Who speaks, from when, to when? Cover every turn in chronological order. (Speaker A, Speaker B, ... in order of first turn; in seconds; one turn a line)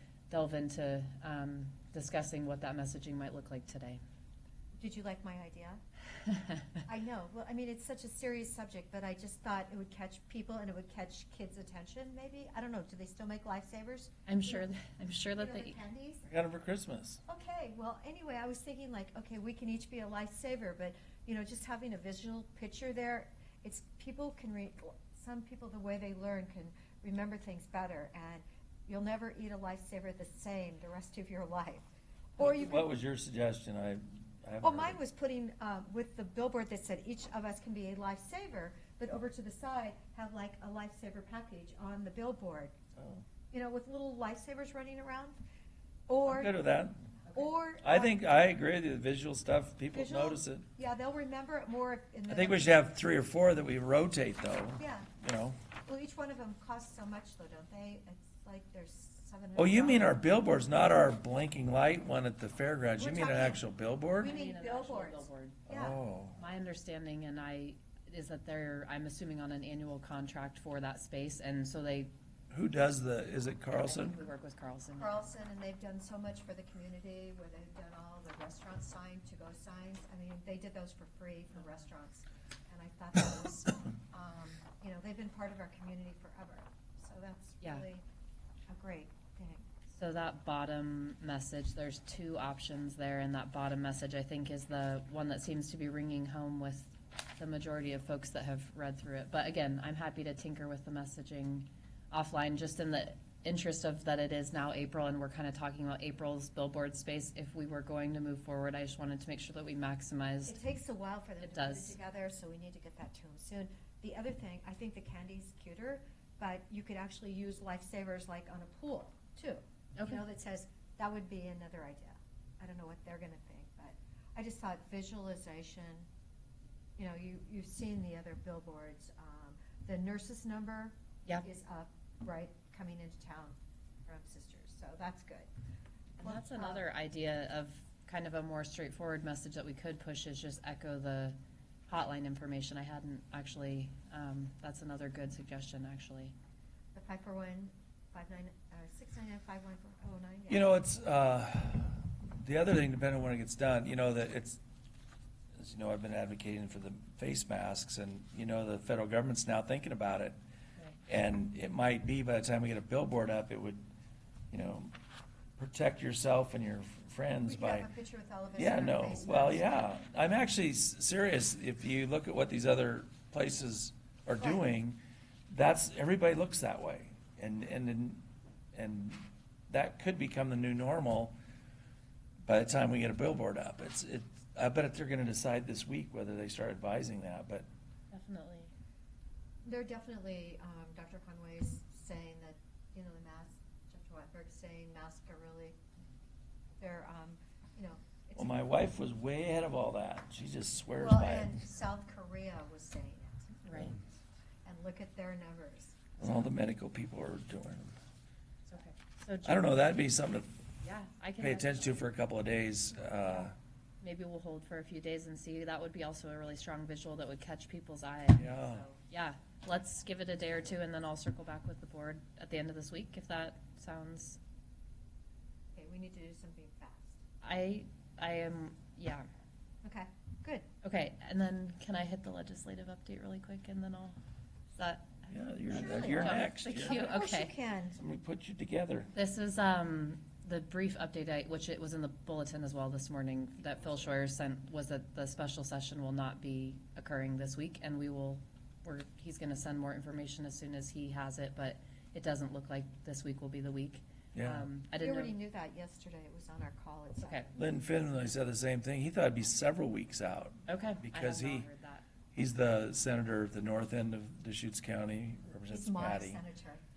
Speaker A: 0.3-4.0
Speaker B: 4.8-5.8
Speaker B: 6.8-14.7
Speaker A: 14.3-15.8
Speaker B: 15.3-16.2
Speaker C: 16.2-17.2
Speaker B: 17.3-32.9
Speaker C: 32.4-35.0
Speaker B: 34.6-42.7
Speaker C: 43.0-43.2
Speaker B: 43.5-45.4
Speaker B: 46.1-46.5
Speaker C: 46.2-47.0
Speaker B: 47.3-48.2
Speaker C: 47.8-50.6
Speaker B: 49.9-52.9
Speaker C: 52.3-55.6
Speaker B: 54.8-55.1
Speaker B: 55.9-60.2
Speaker C: 59.5-64.3
Speaker B: 63.0-63.6
Speaker B: 64.1-66.0
Speaker A: 64.2-65.6
Speaker C: 65.7-66.4
Speaker A: 66.3-72.1
Speaker C: 72.5-74.2
Speaker A: 73.7-75.3
Speaker B: 75.0-88.0
Speaker B: 88.7-89.6
Speaker A: 89.9-110.6
Speaker B: 110.5-126.1
Speaker A: 111.4-112.0
Speaker A: 120.0-120.2
Speaker B: 127.0-135.5
Speaker B: 136.2-136.8
Speaker A: 136.2-141.4
Speaker A: 141.9-146.3
Speaker B: 146.9-150.8
Speaker C: 150.5-154.6
Speaker C: 155.6-160.3
Speaker C: 161.1-163.8
Speaker C: 164.5-164.9
Speaker C: 165.6-167.9
Speaker B: 167.4-169.8
Speaker C: 168.6-175.0
Speaker C: 175.5-178.2
Speaker C: 178.7-181.3
Speaker C: 182.4-187.7
Speaker A: 188.1-188.7
Speaker B: 189.6-195.8
Speaker B: 196.8-198.7
Speaker C: 198.3-201.6
Speaker B: 200.9-204.0
Speaker A: 203.6-203.9
Speaker B: 204.6-206.0
Speaker C: 206.2-207.9
Speaker A: 208.7-209.7
Speaker C: 209.4-210.6
Speaker A: 210.8-212.0
Speaker C: 211.4-213.5
Speaker A: 214.0-224.4
Speaker C: 218.3-218.9
Speaker B: 225.7-227.2
Speaker A: 227.4-229.2
Speaker B: 229.8-230.7
Speaker A: 230.8-234.2
Speaker A: 234.8-235.2
Speaker C: 235.3-237.0
Speaker B: 235.7-238.0
Speaker A: 236.1-237.5
Speaker C: 237.9-239.1
Speaker A: 239.1-255.3
Speaker C: 254.3-254.7
Speaker B: 254.9-257.7
Speaker A: 257.2-257.5
Speaker C: 257.6-261.7
Speaker A: 260.7-262.1
Speaker C: 262.3-266.4
Speaker B: 265.7-266.8